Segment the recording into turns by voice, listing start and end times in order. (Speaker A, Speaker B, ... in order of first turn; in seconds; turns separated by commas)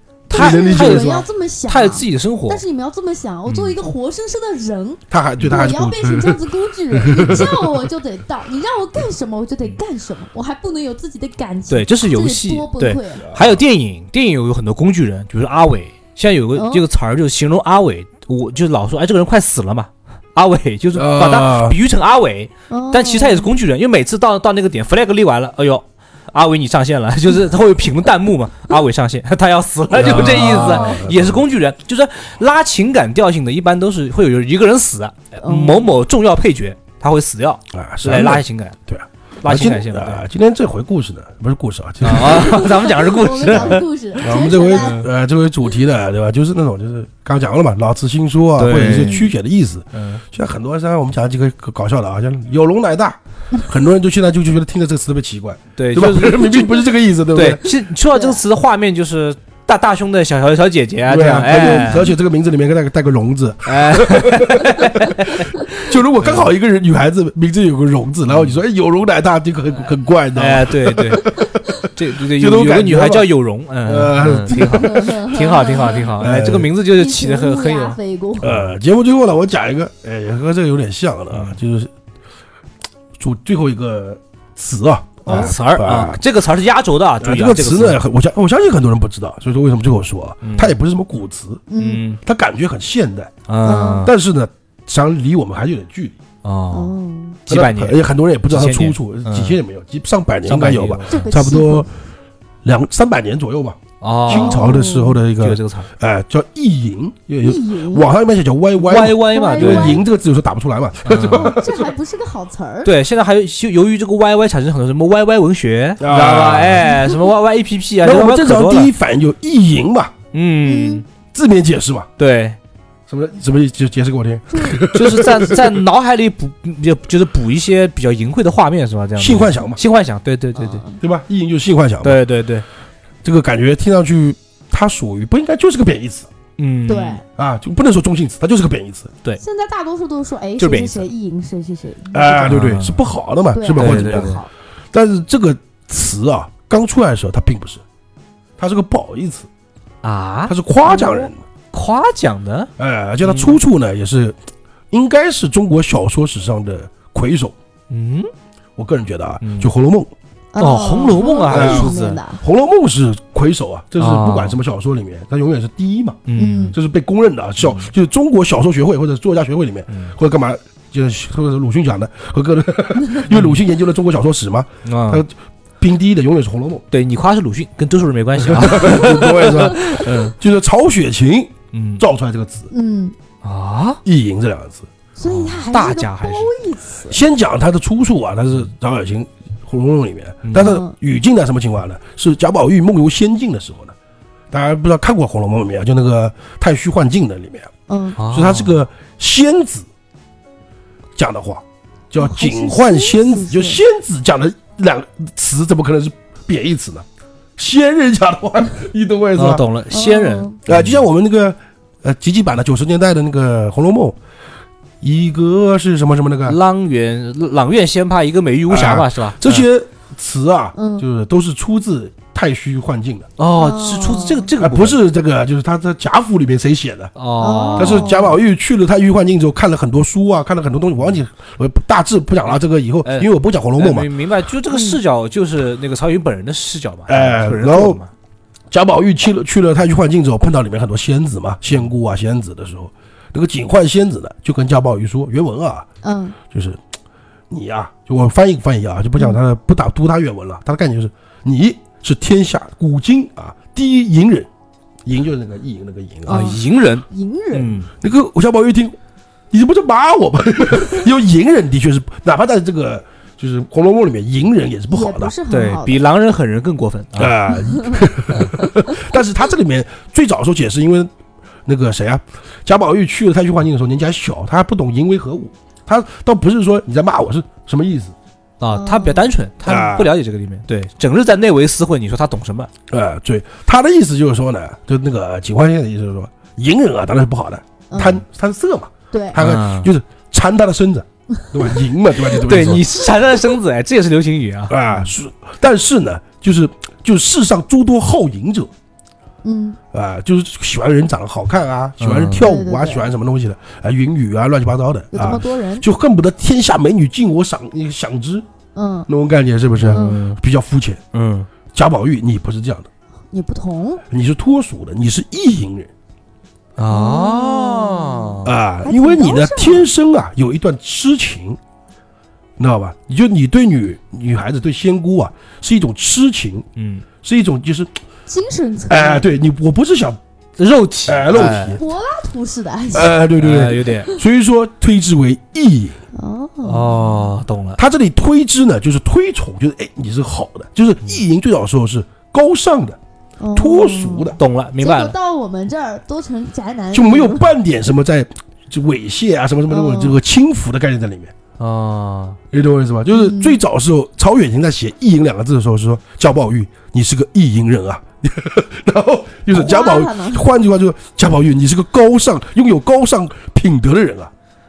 Speaker A: 0.3-2.6, Speaker B: 0.3-1.3, Speaker C: 0.3-13.3, Speaker A: 3.5-3.8, Speaker B: 5.1-7.8, Speaker A: 11.7-38.8, Speaker B: 13.2-13.6, Speaker C: 16.6-16.9, Speaker B: 20.9-21.8, Speaker C: 22.7-23.5, Speaker B: 29.9-31.4, Speaker C: 30.0-31.0, Speaker C: 35.4-35.9, Speaker B: 37.7-42.7, Speaker A: 39.4-40.2, Speaker A: 42.0-43.9, Speaker C: 42.1-45.0, Speaker B: 43.5-57.6, Speaker A: 44.5-45.0, Speaker A: 48.6-49.3, Speaker A: 49.9-50.2, Speaker A: 55.8-56.8, Speaker A: 57.3-62.1, Speaker C: 58.1-58.4, Speaker B: 61.1-73.3, Speaker A: 63.7-66.5, Speaker A: 68.3-68.6, Speaker A: 70.3-78.0, Speaker B: 73.8-75.2, Speaker C: 74.5-76.1, Speaker B: 76.2-76.7, Speaker C: 76.9-78.6, Speaker B: 78.4-81.9, Speaker B: 83.2-86.2, Speaker C: 85.3-85.6, Speaker A: 85.3-88.0, Speaker B: 87.2-91.7, Speaker A: 90.4-90.7, Speaker C: 91.7-92.0, Speaker A: 91.8-92.2, Speaker B: 92.2-96.2, Speaker A: 93.5-94.1, Speaker C: 93.6-94.1, Speaker A: 96.4-96.9, Speaker C: 96.7-97.4, Speaker A: 97.5-99.6, Speaker B: 97.5-101.9, Speaker A: 100.5-101.3, Speaker C: 101.1-101.9, Speaker B: 102.6-111.9, Speaker A: 104.0-105.9, Speaker C: 104.3-105.2, Speaker C: 107.4-108.1, Speaker A: 108.8-110.0, Speaker C: 109.1-110.0, Speaker A: 111.0-111.6, Speaker C: 111.2-112.9, Speaker A: 112.8-118.9, Speaker B: 116.0-117.0, Speaker C: 116.8-117.3, Speaker B: 118.0-120.1, Speaker A: 120.3-121.0, Speaker C: 120.7-121.0, Speaker B: 121.3-122.1, Speaker A: 122.2-122.6, Speaker B: 123.1-125.8, Speaker C: 124.5-124.8, Speaker A: 124.9-130.8, Speaker B: 129.2-129.8, Speaker C: 130.6-131.0, Speaker B: 131.0-132.2, Speaker A: 132.0-132.7, Speaker B: 133.2-136.3, Speaker A: 136.6-137.2, Speaker C: 136.9-137.2, Speaker B: 137.4-139.1, Speaker C: 139.4-142.6, Speaker A: 140.6-141.1, Speaker B: 142.1-144.4, Speaker A: 142.4-143.0, Speaker C: 143.5-144.5, Speaker A: 143.7-144.4, Speaker B: 144.9-147.8, Speaker B: 148.6-149.5, Speaker A: 150.0-150.6, Speaker B: 150.5-151.4, Speaker C: 150.8-151.3, Speaker A: 151.7-152.7, Speaker B: 152.8-154.4, Speaker A: 153.2-153.6, Speaker B: 154.9-157.6, Speaker A: 157.9-158.3, Speaker B: 158.8-160.1, Speaker A: 159.4-159.7, Speaker C: 160.6-162.4, Speaker A: 160.6-162.2, Speaker B: 161.5-166.2, Speaker A: 164.0-164.6, Speaker A: 166.3-166.8, Speaker C: 166.4-166.8, Speaker B: 166.7-176.8, Speaker A: 167.6-167.9, Speaker A: 173.3-173.6, Speaker A: 174.8-175.2, Speaker A: 176.9-180.3, Speaker B: 178.4-182.7, Speaker A: 181.7-182.0, Speaker C: 182.7-183.2, Speaker A: 183.4-184.0, Speaker B: 184.1-184.9, Speaker C: 185.2-187.2, Speaker A: 185.2-186.5, Speaker B: 187.1-193.9, Speaker A: 190.4-190.8, Speaker C: 190.6-190.9, Speaker B: 194.5-197.7, Speaker C: 197.9-198.2, Speaker A: 198.2-198.8, Speaker B: 198.3-199.9, Speaker B: 201.2-207.1, Speaker C: 202.2-203.8, Speaker B: 207.6-209.6, Speaker A: 209.4-211.0, Speaker C: 209.9-210.6, Speaker B: 210.7-214.2, Speaker B: 215.0-216.6, Speaker A: 216.5-219.7, Speaker B: 218.7-223.3, Speaker C: 220.8-221.1, Speaker A: 223.4-225.0, Speaker C: 223.5-224.5, Speaker B: 224.6-227.1, Speaker A: 227.2-228.3, Speaker C: 227.4-228.4, Speaker B: 227.8-234.1, Speaker A: 233.1-238.1, Speaker C: 234.7-235.0, Speaker B: 237.1-238.0, Speaker B: 238.7-245.9, Speaker C: 246.0-246.4, Speaker B: 246.5-246.8, Speaker B: 247.5-254.5, Speaker B: 255.1-256.6, Speaker C: 256.3-257.8, Speaker A: 256.3-257.9, Speaker B: 258.0-258.9, Speaker B: 259.5-265.3, Speaker C: 260.8-261.1, Speaker C: 264.9-266.0, Speaker A: 265.5-267.4, Speaker B: 267.2-271.1, Speaker B: 271.7-278.1, Speaker A: 278.6-282.7, Speaker C: 278.7-279.3, Speaker B: 279.6-280.1, Speaker B: 282.9-292.9, Speaker C: 287.9-288.2, Speaker C: 289.1-289.4, Speaker A: 289.4-289.9, Speaker A: 292.3-295.1, Speaker B: 294.7-298.7, Speaker C: 299.4-299.8, Speaker B: 299.9-308.4, Speaker A: 302.0-302.5, Speaker C: 302.4-303.1, Speaker C: 305.1-305.9, Speaker C: 308.8-309.1, Speaker B: 309.1-311.0, Speaker A: 309.8-310.4, Speaker C: 309.9-310.2, Speaker A: 311.1-311.5, Speaker B: 311.7-312.9, Speaker C: 313.3-314.0, Speaker B: 314.1-315.9, Speaker A: 316.8-318.5, Speaker C: 316.9-319.9, Speaker B: 318.4-321.6, Speaker B: 322.6-326.7, Speaker A: 326.8-327.1, Speaker B: 327.2-327.9, Speaker C: 328.3-329.3, Speaker B: 328.9-330.2, Speaker A: 330.6-331.8, Speaker B: 331.1-331.8, Speaker C: 331.6-333.2, Speaker B: 332.9-336.0, Speaker A: 333.4-334.1, Speaker C: 336.1-337.2, Speaker A: 336.6-337.8, Speaker B: 337.8-343.0, Speaker C: 343.4-347.5, Speaker B: 343.6-344.4, Speaker A: 344.4-345.1, Speaker B: 346.9-351.3, Speaker C: 349.7-350.2, Speaker A: 351.6-352.4, Speaker B: 352.5-364.3, Speaker C: 353.1-353.6, Speaker C: 359.5-360.4